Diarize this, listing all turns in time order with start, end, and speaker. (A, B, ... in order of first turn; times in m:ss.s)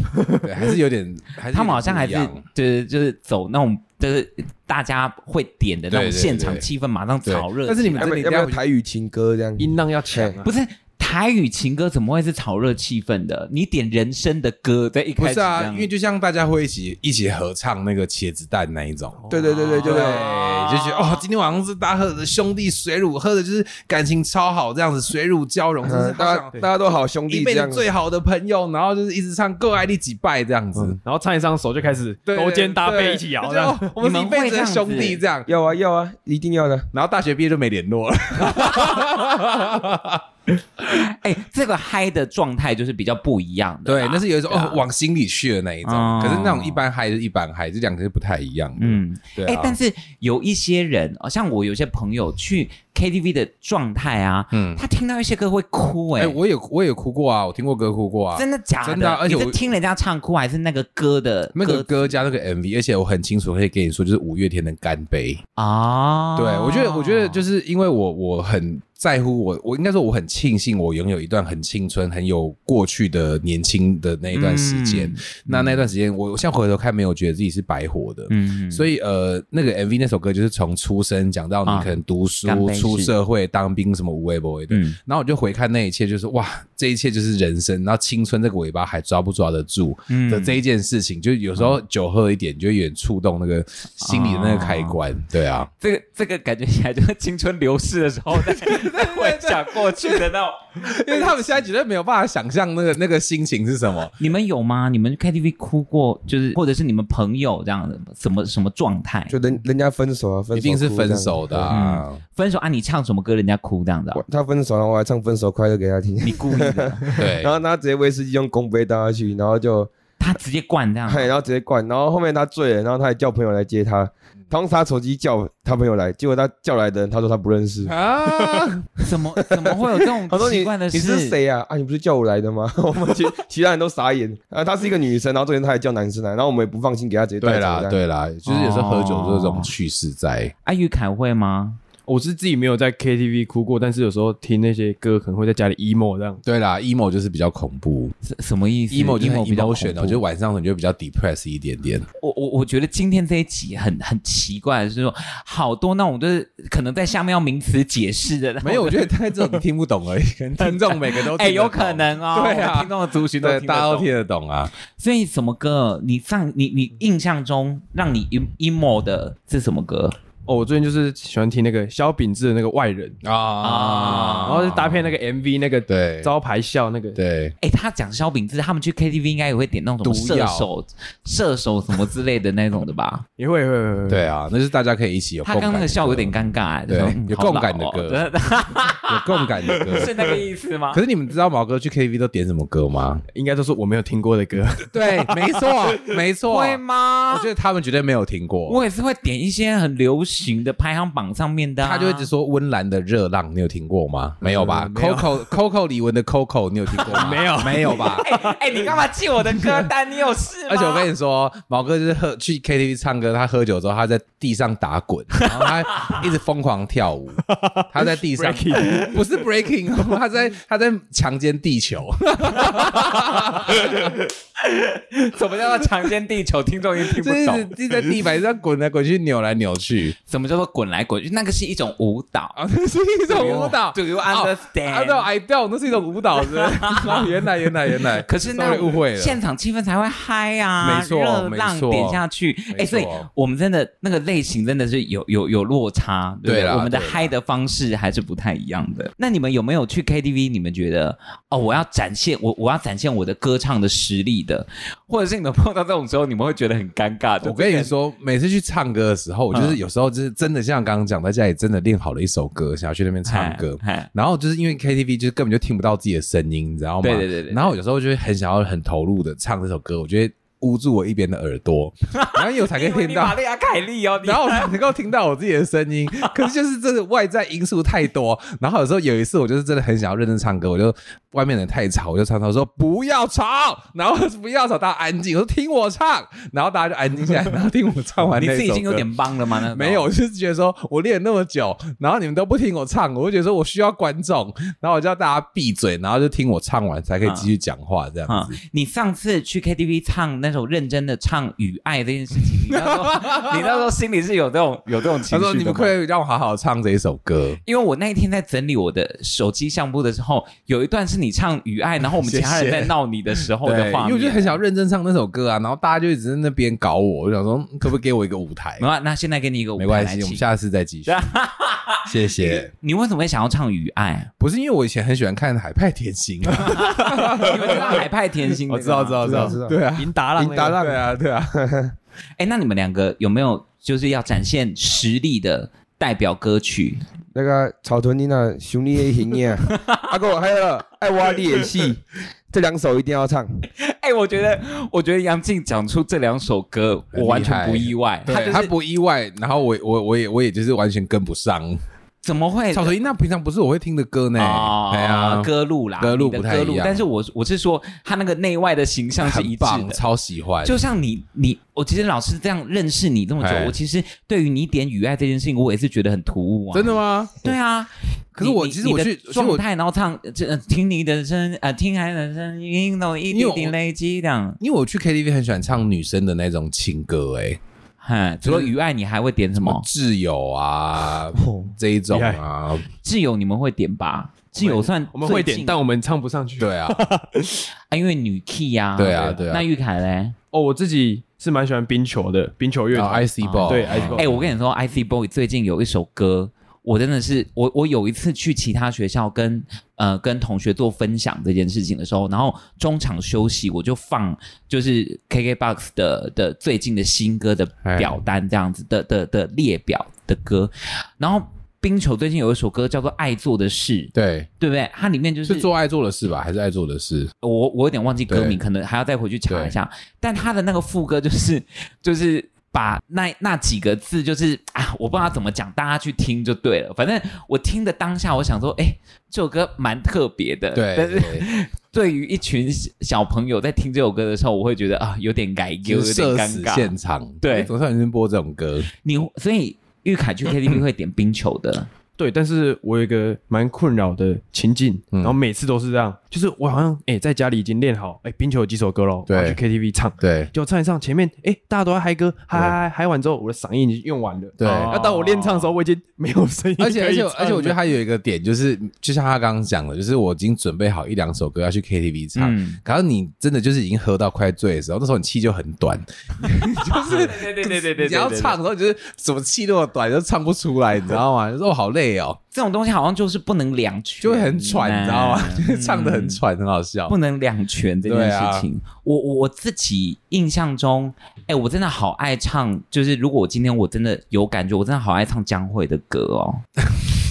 0:00.1-0:00.5 A
0:00.4-0:02.4 B
0:01.5-0:08.2 C
0:05.9-0:06.7 B
0:07.2-0:08.6 B
0:08.0-0:10.4 D
0:09.6-0:10.5 A
0:10.4-0:15.9 C
0:15.2-0:19.2 B
0:19.2-0:19.6 A
0:19.3-0:20.2 D
0:19.4-0:21.2 C
0:19.8-0:26.6 B
0:25.8-0:27.8 D
0:27.3-0:31.0 B
0:30.8-0:33.9 A
0:32.3-0:35.5 B
0:34.0-0:35.2 C
0:35.5-0:36.9 D
0:36.9-0:40.2 B
0:40.8-0:44.8 C
0:43.9-0:49.8 B
0:45.8-0:46.8 C
0:48.8-0:56.4 C
0:54.5-0:54.8 B
0:56.2-0:59.6 B
0:58.3-1:02.2 C
1:01.6-1:05.4 B
1:05.6-1:07.4 C
1:06.4-1:35.7 B
1:14.3-1:15.9 C
1:18.3-1:18.9 C
1:21.7-1:23.1 C
1:24.7-1:25.0 C
1:30.1-1:30.6 C
1:34.0-1:35.0 C
1:35.8-1:41.3 C
1:38.3-1:44.2 B
1:44.2-1:49.3 C
1:49.3-1:51.7 D
1:50.5-1:52.2 B
1:51.7-1:54.2 C
1:54.1-1:59.9 D
1:56.2-1:57.1 C
1:57.2-1:57.6 B
2:00.2-2:01.3 C
2:01.1-2:08.6 D
2:07.9-2:08.9 B
2:09.0-2:11.4 C
2:09.6-2:18.0 D
2:17.4-2:20.5 B
2:18.5-2:19.7 C
2:20.6-2:21.8 C
2:22.1-2:26.4 A
2:26.4-2:28.1 B
2:28.2-2:30.2 C
2:28.9-2:32.1 B
2:32.2-2:39.1 C
2:38.6-2:44.7 B
2:40.6-2:44.1 C
2:45.0-2:50.2 C
2:50.5-2:53.2 A
2:53.2-2:55.2 B
2:53.6-2:54.6 C
2:54.4-2:57.2 A
2:55.9-2:56.3 B
2:57.2-2:57.6 B
2:57.6-3:03.2 C
3:00.0-3:00.7 B
3:03.4-3:04.3 A
3:04.1-3:06.3 B
3:05.4-3:11.0 C
3:06.9-3:08.2 B
3:09.1-3:10.3 B
3:10.9-3:13.2 B
3:13.3-3:15.8 A
3:14.9-3:18.8 B
3:16.5-3:17.5 C
3:18.7-3:22.3 C
3:21.8-3:28.3 B
3:24.4-3:25.5 A
3:27.0-3:28.8 A
3:27.9-3:31.1 C
3:30.7-3:44.2 B
3:37.5-3:39.2 A
3:44.6-3:47.7 C
3:47.0-3:50.2 B
3:50.3-3:52.6 C
3:52.6-3:59.4 B
3:53.3-3:55.3 C
3:56.5-3:57.2 C
3:58.2-4:17.9 C
4:00.8-4:03.3 B
4:06.4-4:07.3 B
4:17.4-4:33.4 B
4:19.5-4:19.8 C
4:23.3-4:24.1 C
4:27.0-4:27.8 C
4:32.2-4:34.8 C
4:34.2-4:49.1 B
4:48.4-4:50.1 C
4:49.6-4:58.6 B
4:57.2-4:57.5 C
4:58.3-5:06.0 C
5:02.7-5:03.9 B
5:05.3-5:07.6 B
5:07.7-5:14.6 C
5:12.2-5:18.8 B
5:18.8-5:20.4 C
5:19.8-5:21.2 B
5:21.1-5:24.3 C
5:22.1-5:22.7 B
5:24.4-5:28.1 B
5:26.6-5:29.5 C
5:28.7-5:30.1 B
5:29.2-5:29.8 D
5:30.0-5:31.0 A
5:30.4-5:31.0 D
5:30.8-5:31.5 B
5:31.5-5:32.0 D
5:32.4-5:37.0 C
5:37.4-5:43.5 D
5:39.8-5:40.0 C
5:43.8-5:48.7 C
5:47.1-5:51.8 B
5:52.2-5:53.0 C
5:52.7-5:57.0 B
5:54.4-6:00.0 C
5:59.2-6:00.8 B
6:00.6-6:14.6 C
6:03.4-6:03.8 B
6:06.7-6:07.6 B
6:08.4-6:09.6 B
6:13.3-6:13.8 B
6:14.6-6:17.6 B
6:18.0-6:19.8 C
6:18.4-6:18.7 B
6:19.6-6:22.8 B
6:21.6-6:22.4 A
6:23.0-6:25.8 C
6:24.6-6:27.6 A
6:26.6-6:27.0 B
6:27.9-6:30.4 C
6:29.0-6:29.7 B
6:30.5-6:34.4 A
6:32.9-6:34.4 B
6:33.4-6:55.7 C
6:47.8-6:48.2 B
6:54.1-6:54.5 B
6:55.4-6:57.3 B
6:57.4-7:17.7 C
6:58.3-6:58.6 B
6:59.5-6:59.8 B
7:10.7-7:11.5 B
7:15.8-7:18.9 B
7:19.0-7:21.9 C
7:22.2-7:37.8 A
7:29.3-7:29.6 B
7:30.2-7:30.5 B
7:34.6-7:34.9 B
7:34.6-7:35.7 C
7:36.8-7:52.4 B
7:42.4-7:42.8 C
7:46.8-7:48.6 C
7:52.5-7:56.4 C
7:54.2-7:57.2 B
7:57.1-8:06.6 C
7:58.0-7:58.7 B